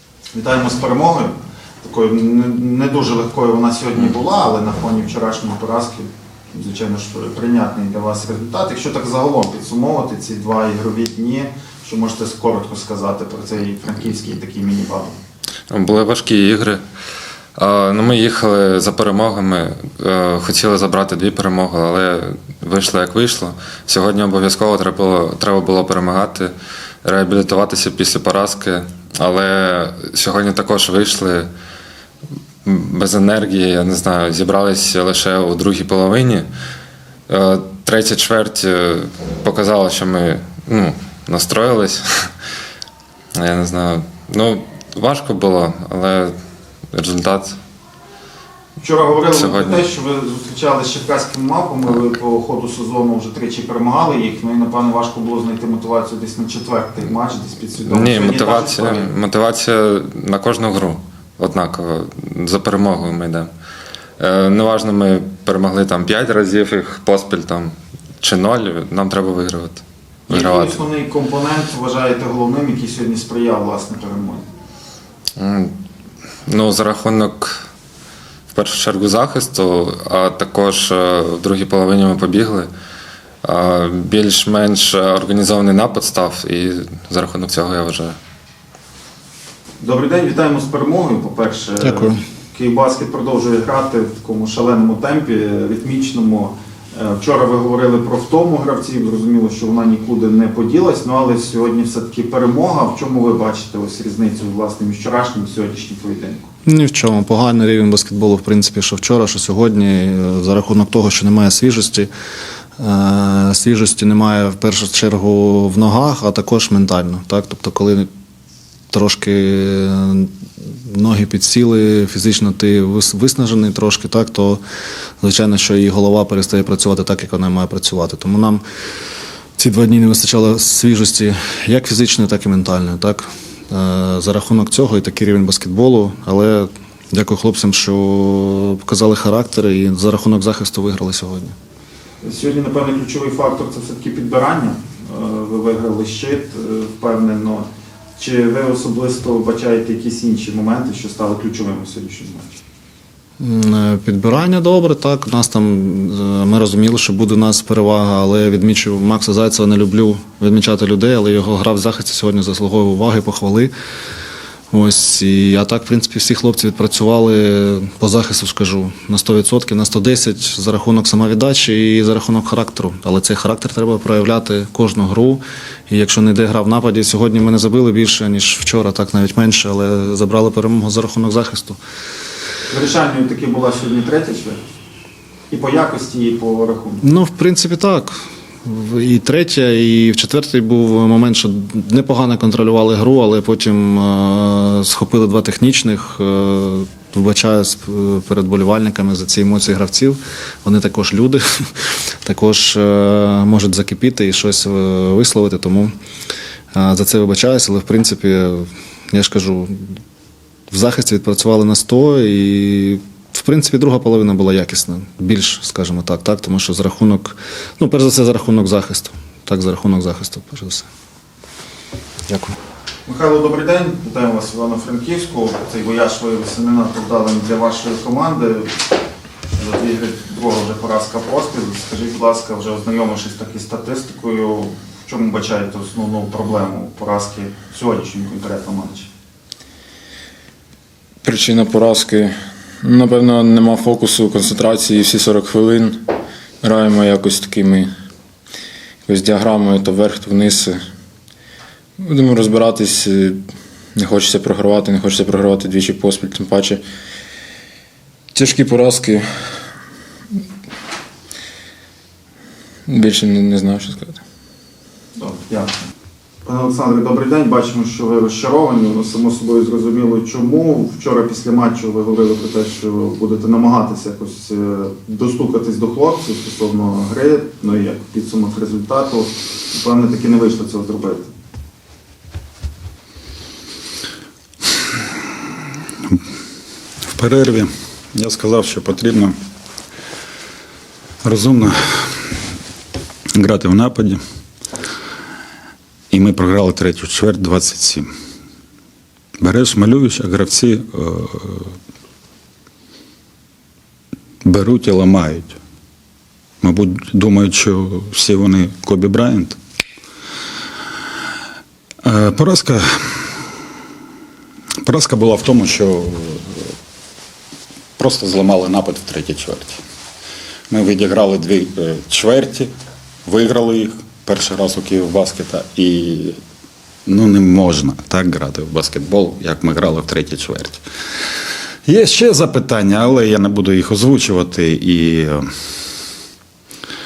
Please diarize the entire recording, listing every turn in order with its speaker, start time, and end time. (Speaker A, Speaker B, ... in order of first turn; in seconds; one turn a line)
Speaker A: 0.3-15.2
Speaker B: 15.7-16.8
Speaker B: 17.6-26.5
Speaker B: 27.0-31.5
Speaker B: 32.6-36.5
Speaker B: 37.3-42.3
Speaker B: 43.4-46.3
Speaker B: 46.9-47.6
Speaker A: 48.8-59.1
Speaker B: 49.2-49.9
Speaker B: 57.9-63.5
Speaker B: 64.2-70.8
Speaker A: 70.3-74.5
Speaker B: 75.4-75.7
Speaker B: 76.5-77.7
Speaker B: 78.5-82.7
Speaker B: 83.4-88.2
Speaker A: 89.8-106.5
Speaker C: 91.8-92.2
Speaker C: 106.7-112.1
Speaker C: 112.8-118.1
Speaker C: 118.9-124.6
Speaker C: 125.2-128.6
Speaker C: 129.6-141.5
Speaker A: 142.2-152.5
Speaker C: 153.4-163.7
Speaker C: 164.7-181.8
Speaker A: 182.7-184.6
Speaker A: 185.5-187.0
Speaker C: 187.0-205.9
Speaker C: 206.7-209.9
Speaker C: 210.7-220.9
Speaker C: 222.3-222.5
Speaker A: 223.1-228.7
Speaker A: 229.6-239.1
Speaker D: 241.2-242.3
Speaker D: 242.8-246.0
Speaker D: 246.6-247.9
Speaker D: 249.1-250.8
Speaker D: 252.0-253.4
Speaker D: 253.9-256.8
Speaker D: 258.3-259.2
Speaker D: 262.9-264.2
Speaker A: 265.2-265.8
Speaker A: 266.4-281.3
Speaker E: 287.1-289.3
Speaker E: 291.2-292.4
Speaker E: 293.3-294.2
Speaker E: 296.1-298.1
Speaker E: 299.4-301.7
Speaker E: 304.4-305.6
Speaker E: 306.6-309.6
Speaker E: 312.0-313.3
Speaker E: 314.8-316.7
Speaker E: 318.0-319.8
Speaker E: 320.7-322.7
Speaker E: 323.2-326.4
Speaker E: 327.1-330.8
Speaker E: 331.9-335.4